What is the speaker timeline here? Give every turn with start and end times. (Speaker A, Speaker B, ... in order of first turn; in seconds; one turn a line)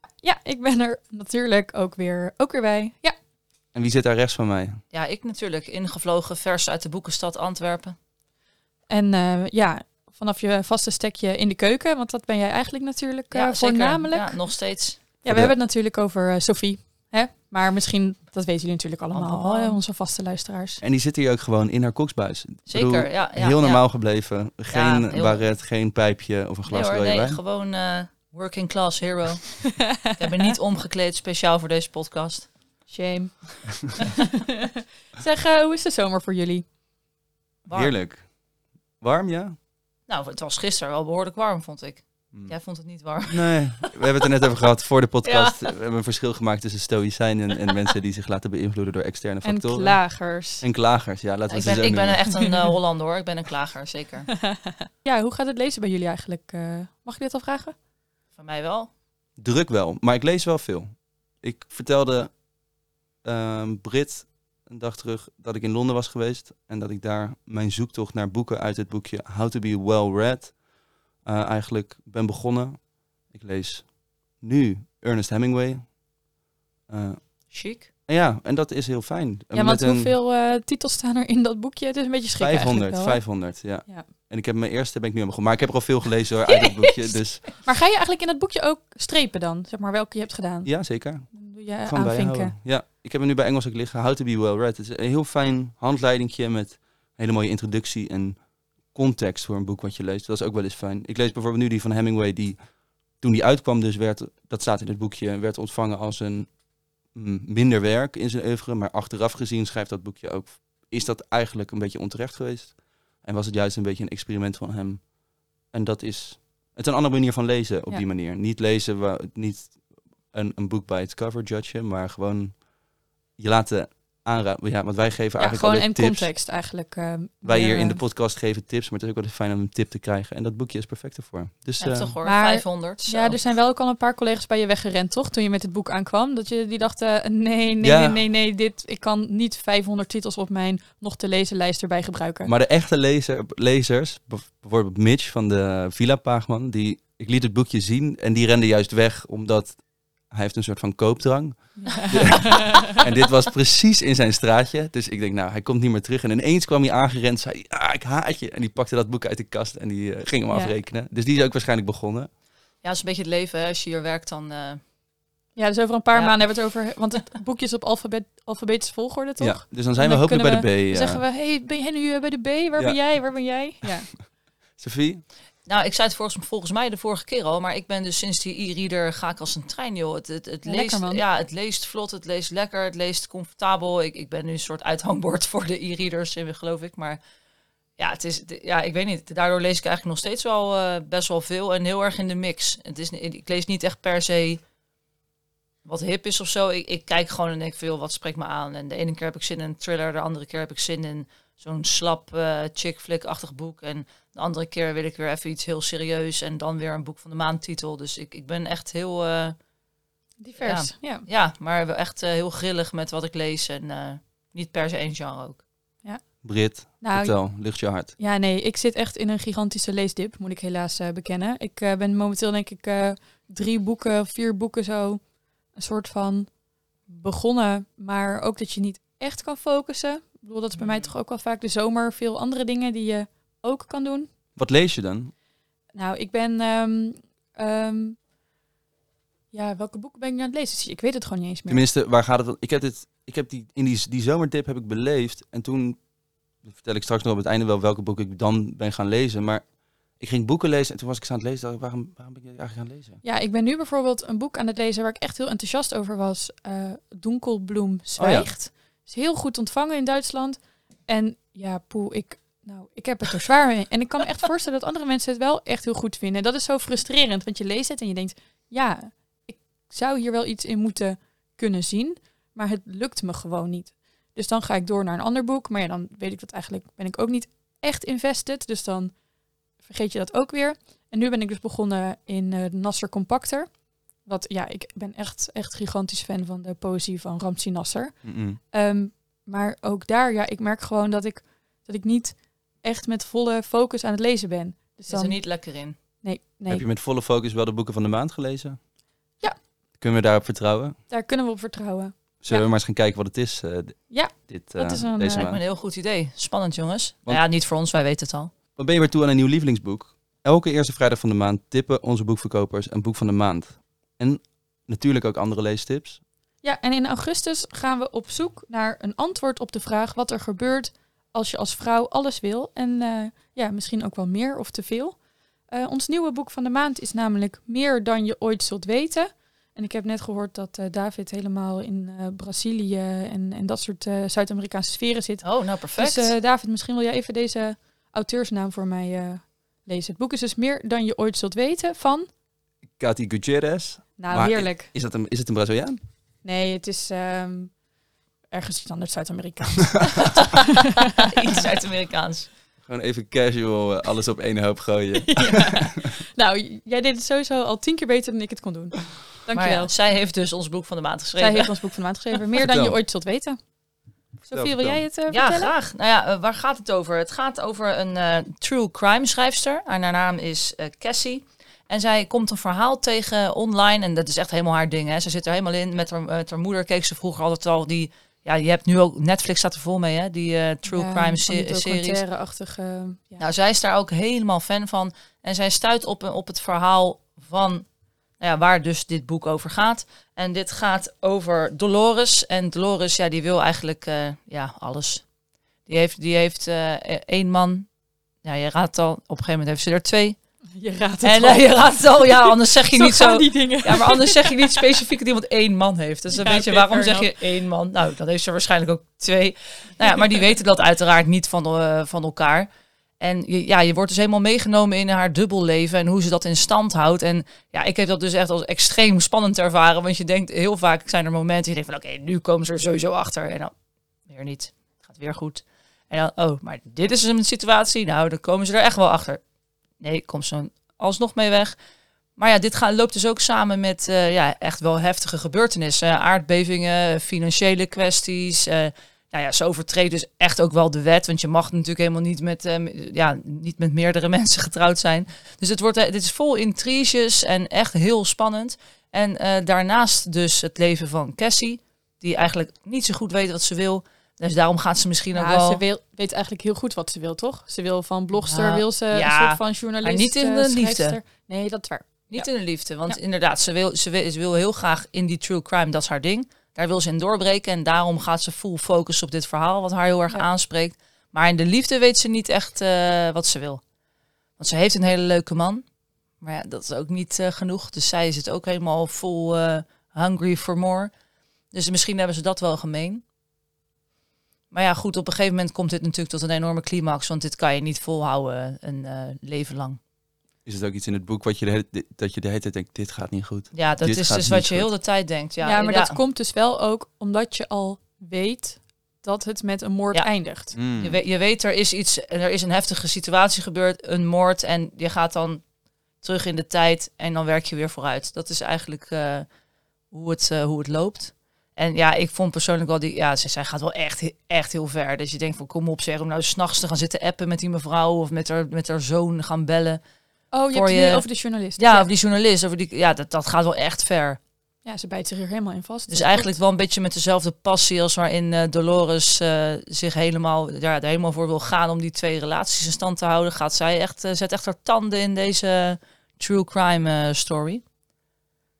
Speaker A: 0.2-3.1
Speaker B: 3.7-4.8
Speaker C: 4.9-8.0
Speaker A: 8.9-14.4
Speaker C: 13.3-15.0
Speaker A: 15.2-20.8
Speaker B: 15.2-15.5
Speaker C: 19.1-19.8
Speaker B: 20.8-27.4
Speaker C: 22.7-23.8
Speaker C: 24.7-25.4
Speaker C: 26.7-32.5
Speaker A: 29.9-30.1
Speaker A: 32.9-36.6
Speaker C: 37.6-37.9
Speaker B: 37.7-38.3
Speaker B: 39.0-39.5
Speaker C: 40.1-43.9
Speaker B: 43.3-52.4
Speaker C: 45.2-45.6
Speaker A: 49.4-50.6
Speaker C: 51.5-54.4
Speaker A: 54.5-57.7
Speaker C: 58.4-58.9
Speaker B: 59.4-62.4
Speaker B: 63.2-70.6
Speaker B: 71.2-76.0
Speaker B: 76.9-80.1
Speaker C: 77.5-77.9
Speaker A: 79.5-84.1
Speaker B: 82.4-87.5
Speaker C: 86.5-87.3
Speaker A: 87.6-92.5
Speaker B: 90.6-102.6
Speaker B: 103.2-106.5
Speaker B: 107.1-115.1
Speaker B: 115.7-122.7
Speaker B: 123.4-126.3
Speaker A: 125.4-128.0
Speaker B: 127.4-132.1
Speaker C: 131.8-133.4
Speaker A: 132.2-142.5
Speaker B: 137.8-138.2
Speaker B: 142.4-162.3
Speaker A: 151.8-152.9
Speaker C: 162.8-164.8
Speaker A: 165.6-174.1
Speaker B: 169.4-171.2
Speaker B: 173.8-174.2
Speaker B: 174.8-175.2
Speaker C: 175.7-187.2
Speaker A: 180.6-181.2
Speaker C: 188.0-194.6
Speaker C: 195.8-209.6
Speaker A: 210.4-211.2
Speaker C: 210.6-215.6
Speaker B: 216.4-218.1
Speaker A: 217.0-217.5
Speaker A: 218.2-226.5
Speaker A: 227.1-234.3
Speaker B: 234.6-235.3
Speaker A: 235.9-238.2
Speaker A: 239.5-241.8
Speaker B: 241.7-246.0
Speaker B: 246.6-249.7
Speaker B: 250.2-253.2
Speaker A: 253.2-279.2
Speaker B: 258.2-258.5
Speaker A: 279.8-295.4
Speaker B: 288.2-288.6
Speaker C: 295.1-296.0
Speaker A: 296.0-296.8
Speaker B: 296.7-298.8
Speaker B: 300.0-301.0
Speaker A: 301.1-302.6
Speaker B: 302.4-305.6
Speaker A: 304.1-305.5
Speaker C: 305.3-308.5
Speaker B: 308.8-316.2
Speaker A: 316.6-325.2
Speaker A: 325.7-342.3
Speaker C: 335.4-336.3
Speaker B: 343.0-346.0
Speaker A: 344.2-344.9
Speaker A: 346.4-347.7
Speaker A: 348.5-350.5
Speaker C: 350.3-352.5
Speaker B: 352.8-356.1
Speaker A: 355.2-359.9
Speaker C: 359.5-361.7
Speaker A: 361.4-363.6
Speaker B: 362.6-363.0
Speaker A: 364.4-365.7
Speaker B: 364.5-365.0
Speaker C: 365.3-382.2
Speaker A: 380.9-383.4
Speaker C: 383.4-387.9
Speaker C: 388.4-395.2
Speaker C: 395.9-397.9
Speaker C: 398.4-400.4
Speaker A: 400.8-404.8
Speaker C: 401.2-412.7
Speaker A: 406.3-407.4
Speaker C: 413.2-423.7
Speaker C: 424.3-429.4
Speaker C: 430.0-431.8
Speaker C: 432.4-455.8
Speaker A: 455.3-462.5
Speaker C: 458.4-461.2
Speaker C: 462.3-473.8
Speaker C: 474.6-475.8
Speaker C: 476.4-481.1
Speaker C: 481.7-483.2
Speaker C: 484.7-490.0
Speaker B: 490.6-494.9
Speaker C: 493.7-496.2
Speaker A: 495.6-500.8
Speaker B: 500.7-501.2
Speaker C: 500.9-505.6
Speaker C: 506.2-509.4
Speaker C: 510.1-520.0
Speaker A: 520.5-522.1
Speaker C: 520.7-524.4
Speaker A: 524.8-526.5
Speaker C: 526.1-537.8